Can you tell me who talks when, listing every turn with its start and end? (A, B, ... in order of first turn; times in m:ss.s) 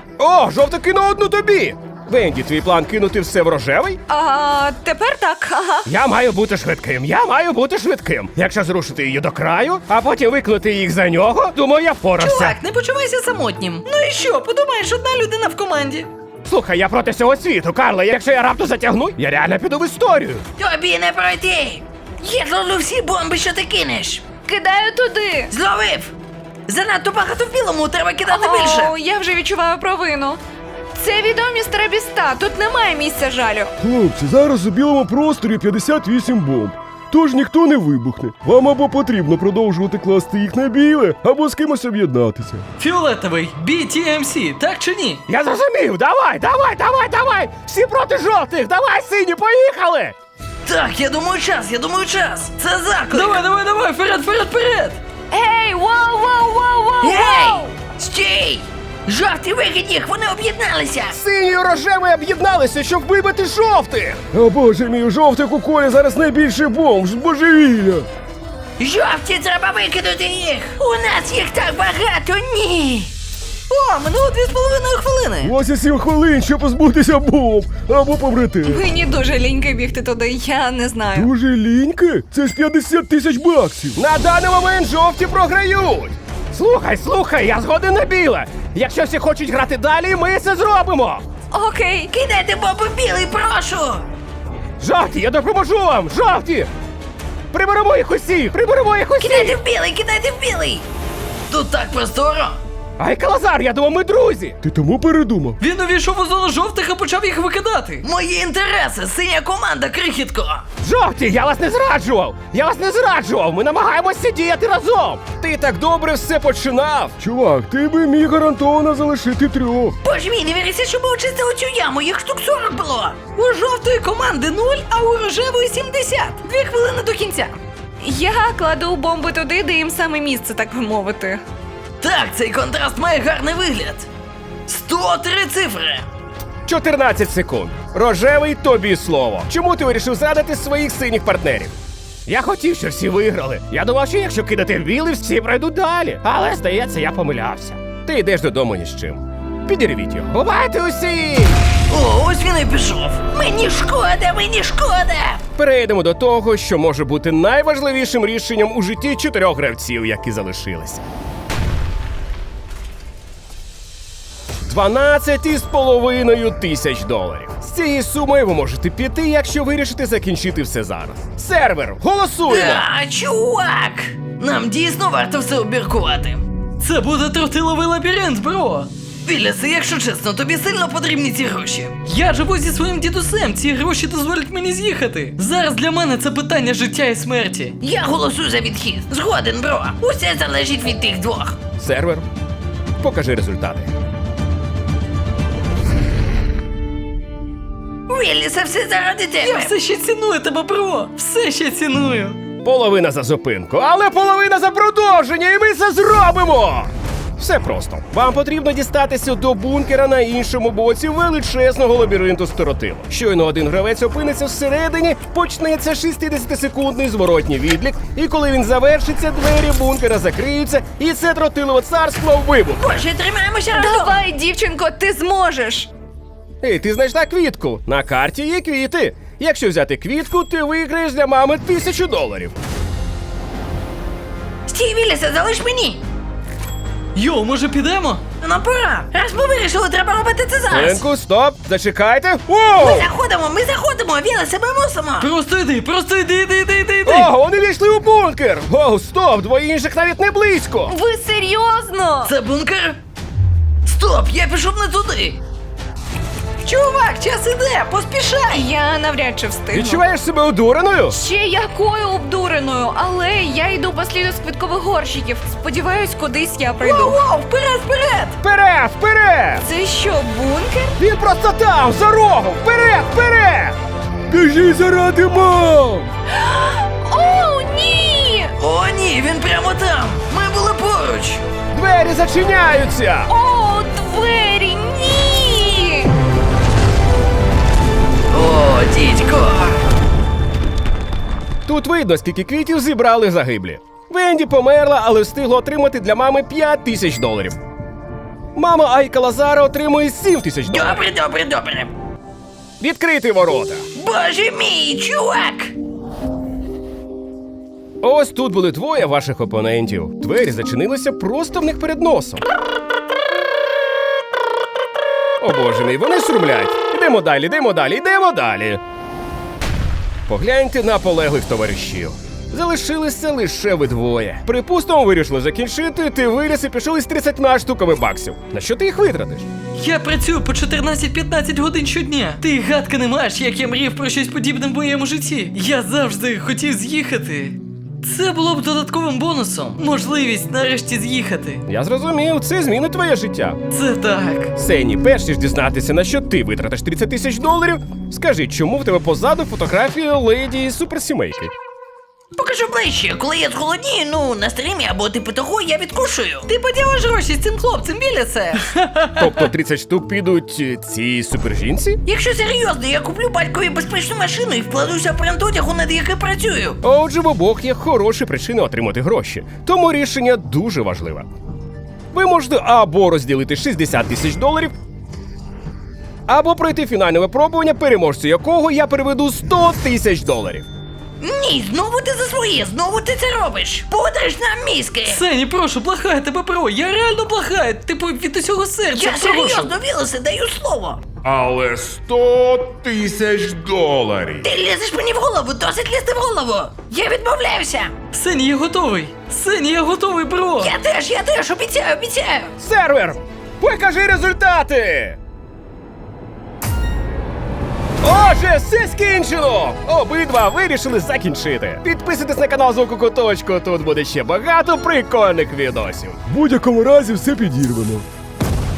0:00.2-0:04.0 A
0:04.1-0:05.9 B
0:05.8-0:12.6 A
0:12.2-0:14.0 C
0:12.5-0:16.1 D
0:16.4-0:20.4 A
0:20.6-0:24.2 C
0:24.4-0:25.5 B
0:25.5-0:26.1 C
0:26.7-0:28.9 C
0:28.2-0:30.4 B
0:30.9-0:33.7 B
0:33.8-0:42.6 E
0:42.8-0:45.2 D
0:45.3-0:50.2 A
0:50.6-0:53.4 C
0:53.1-0:55.0 D
0:55.3-0:57.7 B
0:57.0-1:01.2 C
1:01.1-1:04.3 A
1:04.3-1:08.1 E
1:08.8-1:13.1 C
1:13.7-1:15.5 C
1:15.4-1:18.8 E
1:18.6-1:21.3 B
1:21.1-1:24.0 E
1:23.9-1:31.2 A
1:31.5-1:32.1 B
1:32.1-1:34.0 C
1:34.8-1:36.7 A
1:37.5-1:39.6 A
1:39.2-1:40.8 C
1:41.5-1:42.6 C
1:43.0-1:44.6 A
1:44.6-1:45.6 E
1:45.6-1:48.0 D
1:48.0-1:50.6 C
1:50.8-1:57.2 A
1:57.2-2:00.0 E
2:00.0-2:07.5 C
2:08.0-2:11.4 B
2:12.0-2:14.1 C
2:14.7-2:16.0 C
2:16.6-2:31.6 A
2:31.9-2:35.4 C
2:35.6-2:41.0 A
2:44.6-2:52.9 A
2:52.5-2:56.4 C
2:56.8-2:58.9 D
2:59.2-3:02.0 C
3:02.0-3:07.7 D
3:07.8-3:11.6 C
3:11.8-3:12.2 A
3:13.0-3:13.9 A
3:18.1-3:19.7 C
3:19.4-3:22.4 D
3:22.6-3:43.0 A
3:42.8-3:44.2 C
3:43.7-3:45.9 B
3:46.6-3:52.6 A
3:54.7-3:56.0 C
3:57.1-3:58.2 D
3:58.4-4:01.0 C
4:00.7-4:03.1 A
4:02.8-4:05.3 C
4:05.2-4:07.3 D
4:07.0-4:10.9 A
4:10.9-4:12.3 B
4:12.2-4:13.0 C
4:13.8-4:15.4 C
4:16.6-4:18.6 C
4:18.5-4:20.0 B
4:19.7-4:21.2 A
4:21.1-4:27.2 B
4:26.8-4:28.4 C
4:28.4-4:29.6 A
4:29.6-4:31.0 B
4:31.0-4:33.8 A
4:34.3-4:36.1 E
4:36.3-4:38.5 B
4:38.6-4:41.4 C
4:41.7-4:43.3 A
4:43.3-4:46.1 B
4:48.3-4:49.8 C
4:51.6-4:57.6 A
4:58.5-5:01.1 A
5:00.7-5:01.9 C
5:02.8-5:03.8 A
5:03.9-5:05.7 C
5:08.0-5:12.4 A
5:15.4-5:18.8 A
5:20.3-5:29.5 A
5:29.8-5:41.6 D
5:41.7-5:43.6 A
5:43.7-5:44.5 D
5:44.6-5:51.5 A
5:52.4-5:58.6 C
5:58.7-5:59.2 D
5:59.1-6:02.0 A
6:02.0-6:06.8 C
6:06.8-6:11.3 A
6:12.1-6:14.7 A
6:16.3-6:20.7 A
6:21.2-6:25.2 C
6:25.0-6:29.7 D
6:28.9-6:31.0 C
6:31.2-6:34.5 A
6:34.4-6:38.0 C
6:38.1-6:40.7 D
6:40.6-6:42.5 C
6:42.6-6:45.2 A
6:48.0-6:56.2 A
6:56.3-6:58.0 E